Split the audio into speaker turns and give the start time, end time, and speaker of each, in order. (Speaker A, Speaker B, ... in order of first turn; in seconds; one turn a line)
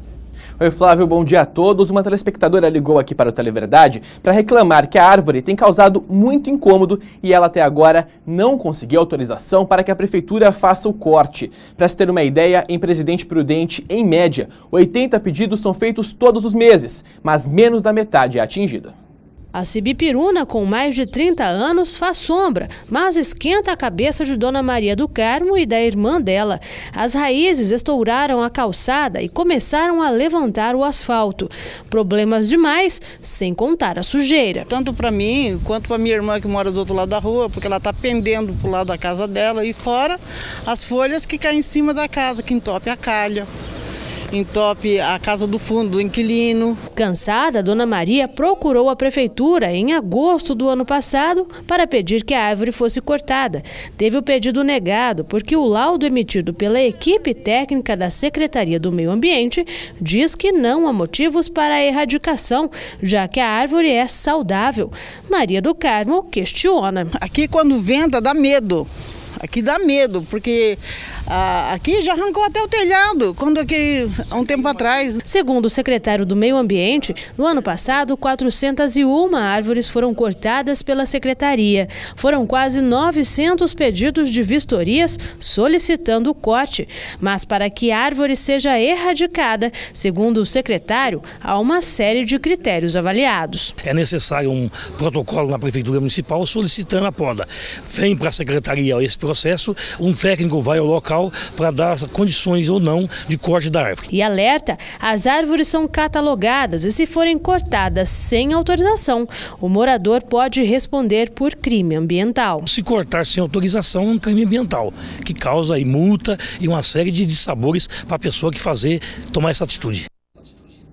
Speaker A: 0.6-18.9
Speaker B: 19.5-34.7
Speaker C: 34.7-43.5
Speaker C: 44.3-46.8
Speaker B: 47.0-67.1
Speaker C: 67.2-68.9
Speaker C: 69.4-75.2
Speaker B: 75.2-93.8
Speaker D: 93.8-104.0
Speaker B: 104.1-112.7
Speaker D: 112.7-120.1